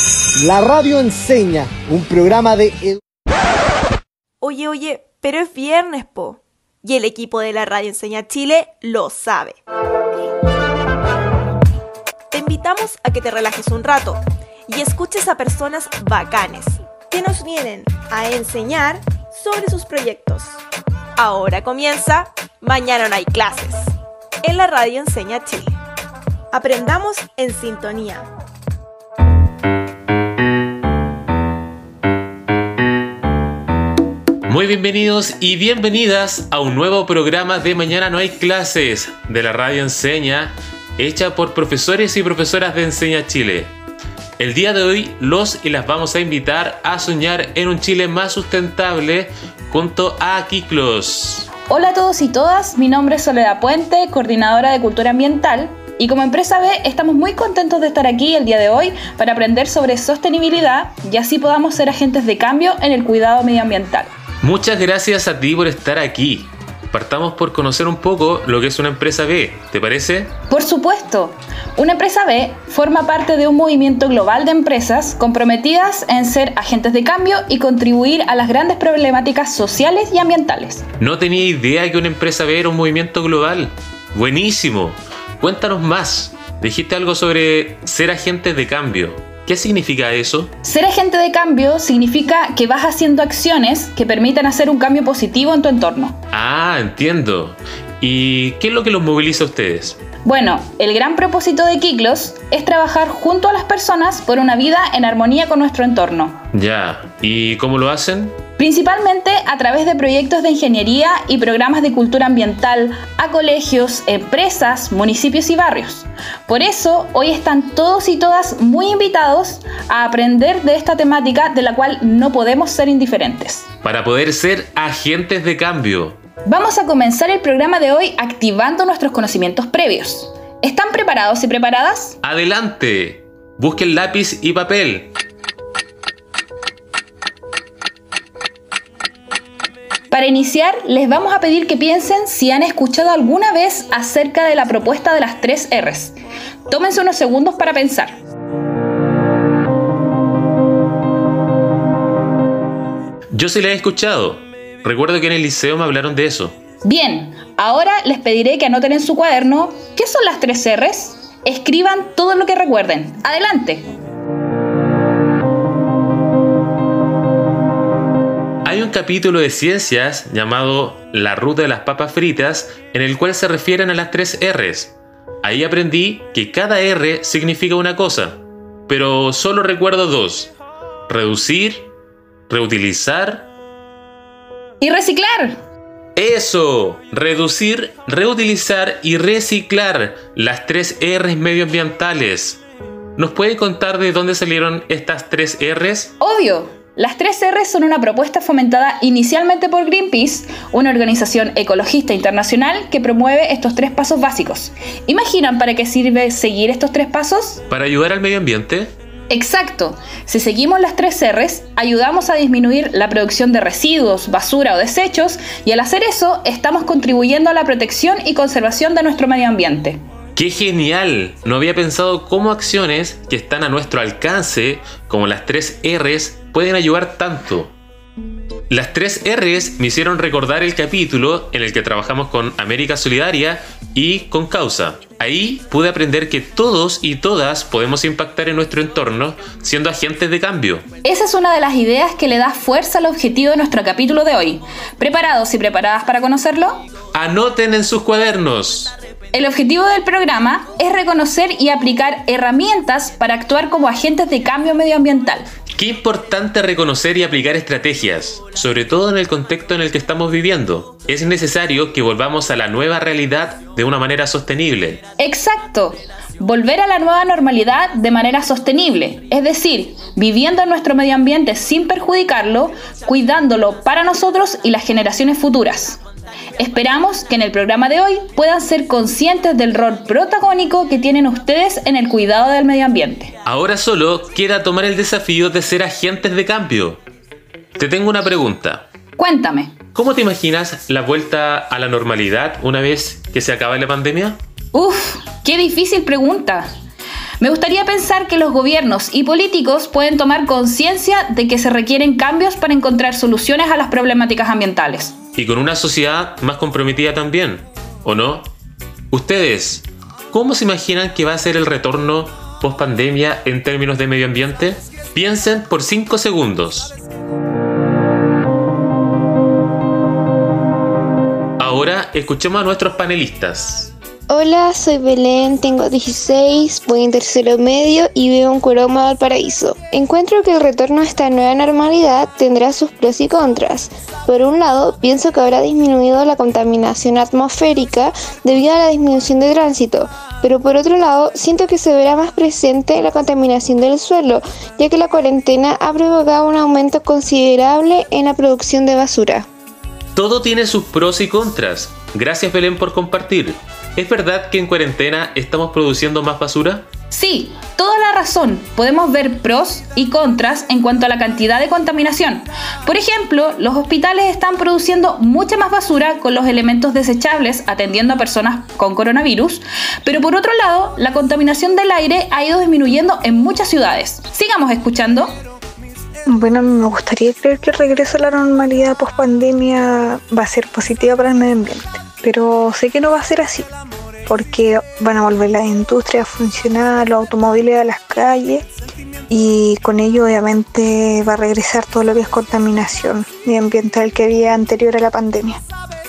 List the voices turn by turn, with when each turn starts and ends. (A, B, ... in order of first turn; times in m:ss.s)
0:00.4-0:03.0 A
0:04.4-0:09.6 B
0:12.3-0:20.6 B
0:21.2-0:23.9 B
0:24.4-0:25.8 B
0:26.5-0:28.3 B
0:34.5-0:43.7 C
0:44.4-0:51.5 C
0:51.7-1:04.1 D
1:04.4-1:10.3 C
1:10.5-1:20.9 D
1:21.0-1:30.5 C
1:30.6-1:36.2 D
1:36.3-1:40.0 C
1:40.2-1:46.4 D
1:46.5-1:48.4 C
1:48.6-2:03.7 D
2:03.8-2:06.2 C
2:06.4-2:12.2 D
2:12.2-2:15.1 C
2:20.1-2:26.2 D
2:26.7-2:28.2 D
2:33.3-2:36.6 C
2:36.8-2:43.9 D
2:48.6-3:00.5 C
3:01.1-3:01.9 C
3:02.5-3:03.5 C
3:04.8-3:05.6 D
3:06.2-3:12.6 C
3:13.2-3:16.1 C
3:16.2-3:27.6 D
3:27.7-3:28.9 C
3:29.3-3:40.0 D
3:40.4-3:47.7 C
3:48.7-4:00.8 C
4:01.0-4:06.8 D
4:07.1-4:09.0 C
4:09.3-4:15.5 D
4:15.7-4:25.0 C
4:25.2-4:36.0 D
4:36.6-4:43.3 D
4:43.4-4:47.0 C
4:47.8-4:48.9 C
4:49.2-4:49.8 D
4:50.0-4:54.4 C
4:54.7-4:56.7 D
4:57.4-5:05.2 D
5:05.4-5:08.5 C
5:09.1-5:17.0 C
5:21.6-5:23.9 C
5:24.3-5:49.5 E
5:50.2-5:56.9 C
5:57.1-6:15.4 D
6:16.3-6:23.7 F
6:24.3-6:28.6 F
6:29.3-6:35.6 F